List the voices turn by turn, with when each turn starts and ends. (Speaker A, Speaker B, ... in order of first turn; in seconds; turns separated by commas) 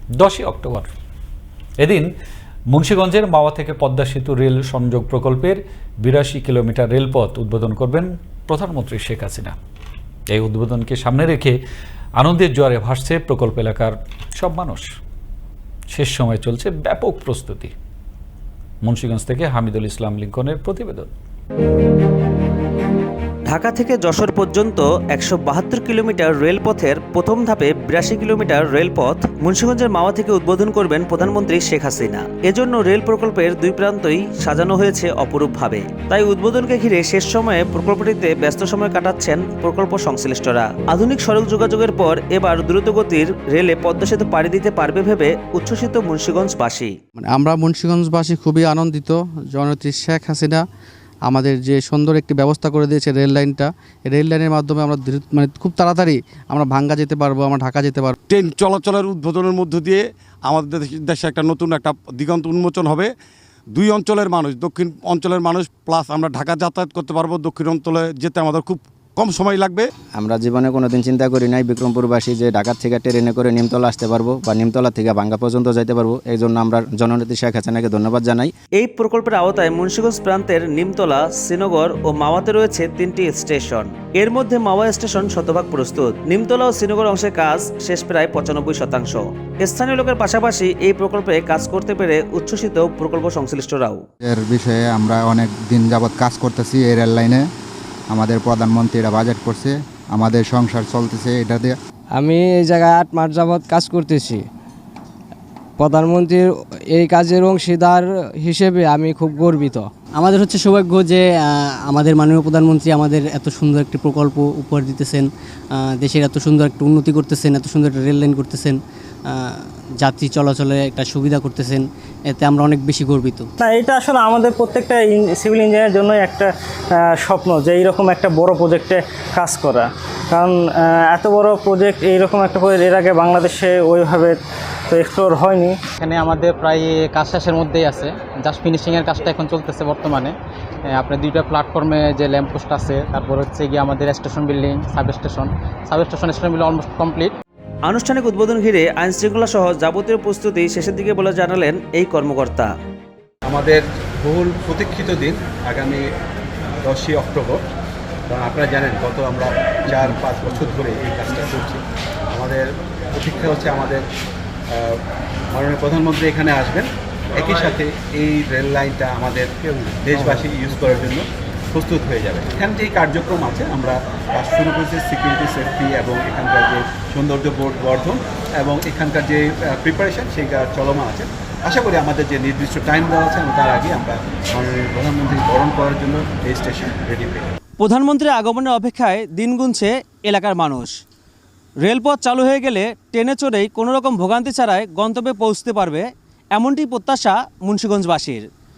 Speaker A: 0.2-0.9, Speaker A: 1.8-2.1, Speaker A: 2.7-9.5, Speaker A: 10.3-11.6, Speaker A: 12.2-14.9, Speaker A: 15.9-17.7, Speaker A: 18.8-21.1, Speaker B: 23.5-47.0, Speaker C: 47.2-50.6, Speaker C: 51.2-58.2, Speaker D: 58.3-63.1, Speaker D: 63.7-69.8, Speaker E: 70.2-78.5, Speaker B: 78.8-94.0, Speaker F: 94.2-97.4, Speaker F: 98.1-101.7, Speaker G: 102.1-104.5, Speaker G: 105.8-109.9, Speaker H: 110.2-118.8, Speaker H: 119.3-123.5, Speaker I: 123.6-126.5, Speaker I: 127.2-134.4, Speaker I: 134.9-135.8, Speaker J: 136.0-140.3, Speaker J: 140.9-147.3, Speaker B: 147.9-152.7, Speaker K: 153.4-156.0, Speaker K: 156.8-157.6, Speaker K: 158.3-164.0, Speaker K: 164.7-165.0, Speaker K: 165.5-187.5, Speaker B: 187.8-190.9, Speaker B: 191.8-198.5